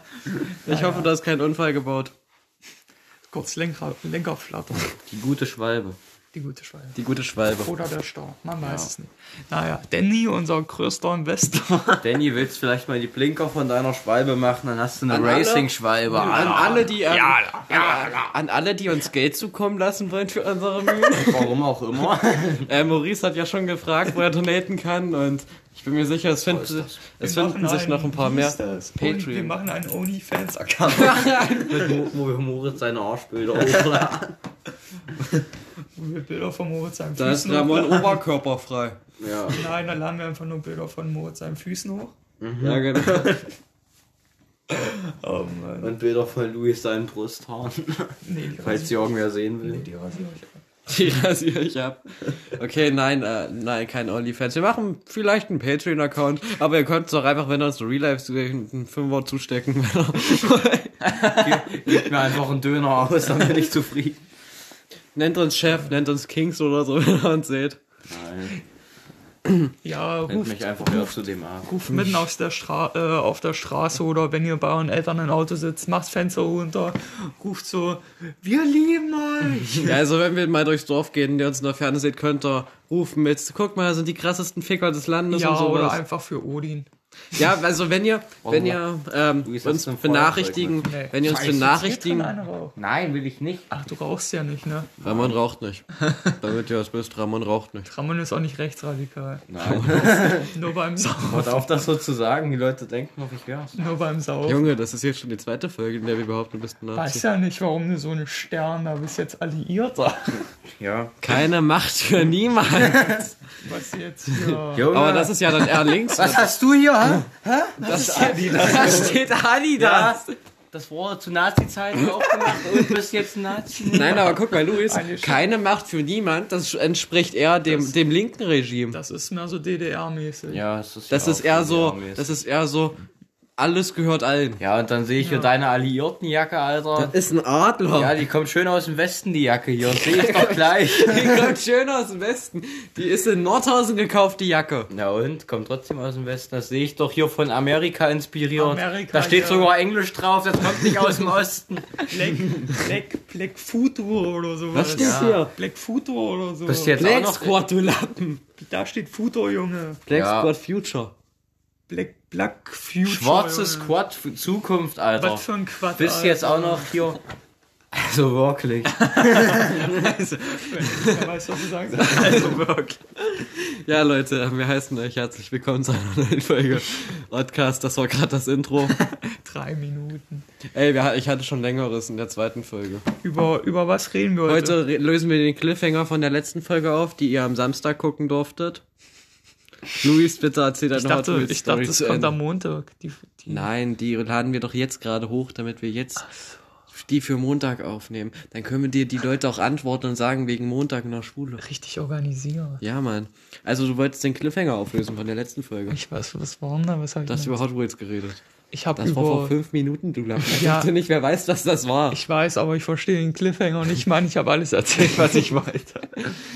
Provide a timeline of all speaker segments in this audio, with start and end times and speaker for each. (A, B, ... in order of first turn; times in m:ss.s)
0:00.6-0:02.1 A
0:00.6-0:01.1 B
0:03.3-0:04.9 B
0:05.0-0:06.0 C
0:06.3-0:07.0 B
0:06.9-0:07.7 A
0:07.6-0:12.0 B
0:08.6-0:08.9 C
0:12.0-0:18.2 C
0:15.1-0:21.5 A
0:21.2-0:22.7 C
0:22.7-0:29.6 A
0:26.5-0:26.9 C
0:27.2-0:31.6 B
0:30.9-0:32.0 A
0:31.7-0:34.4 C
0:36.0-0:38.2 B
0:37.2-0:39.0 A
0:39.2-0:39.6 C
0:39.5-0:42.1 B
0:42.4-0:43.3 C
0:42.6-0:43.5 A
0:44.7-0:45.9 B
0:45.8-0:49.9 C
0:48.2-0:49.0 B
0:49.6-0:50.6 B
0:50.9-1:02.2 A
1:01.0-1:04.2 C
1:05.1-1:07.8 A
1:08.1-1:08.6 C
1:09.8-1:20.0 B
1:10.3-1:11.8 C
1:11.9-1:12.2 A
1:19.7-1:26.0 A
1:25.3-1:26.9 B
1:27.3-1:32.3 A
1:28.4-1:28.8 C
1:29.4-1:30.9 C
1:30.8-1:32.8 B
1:32.8-1:33.7 C
1:33.7-1:34.9 B
1:35.0-1:35.3 C
1:35.0-1:37.9 A
1:37.8-1:39.4 B
1:39.5-1:40.5 C
1:39.6-1:40.3 A
1:40.2-1:41.8 B
1:41.1-1:43.8 C
1:43.7-1:44.6 B
1:44.4-1:47.2 A
1:46.9-1:50.4 B
1:50.6-1:51.1 C
1:51.2-1:53.2 A
1:52.8-1:53.2 C
1:53.5-1:54.9 B
1:54.7-1:59.2 C
1:54.9-1:56.5 A
1:57.8-1:59.2 B
1:57.8-2:00.2 A
1:59.8-2:04.4 C
2:02.0-2:03.0 A
2:03.8-2:09.0 A
2:04.8-2:05.5 B
2:08.9-2:10.6 B
2:10.5-2:12.3 C
2:11.1-2:13.0 A
2:13.6-2:14.6 A
2:14.6-2:17.1 C
2:15.2-2:15.5 B
2:17.0-2:18.2 A
2:17.9-2:21.6 C
2:19.9-2:24.9 A
2:24.9-2:32.7 C
2:28.6-2:29.7 B
2:32.1-2:37.0 B
2:34.7-2:35.5 A
2:34.9-2:35.4 C
2:36.7-2:37.6 C
2:37.0-2:38.4 A
2:38.6-2:40.0 B
2:40.1-2:41.1 A
2:40.1-2:40.5 C
2:41.9-2:44.0 B
2:43.0-2:47.2 C
2:45.2-2:47.0 B
2:47.9-2:51.0 C
2:49.6-2:52.7 B
2:51.0-2:51.3 A
2:51.9-2:53.0 C
2:52.1-2:52.5 A
2:53.3-2:59.0 A
2:59.0-3:00.4 B
3:00.7-3:03.0 A
3:03.2-3:04.8 B
3:04.4-3:08.8 A
3:10.0-3:12.4 A
3:10.9-3:13.7 B
3:13.5-3:16.3 A
3:16.9-3:21.6 A
3:21.6-3:22.8 B
3:22.8-3:26.0 A
3:25.9-3:27.6 B
3:27.3-3:28.4 A
3:28.7-3:29.6 B
3:29.0-3:32.2 A
3:30.4-3:30.9 B
3:32.1-3:35.6 B
3:35.0-3:36.1 C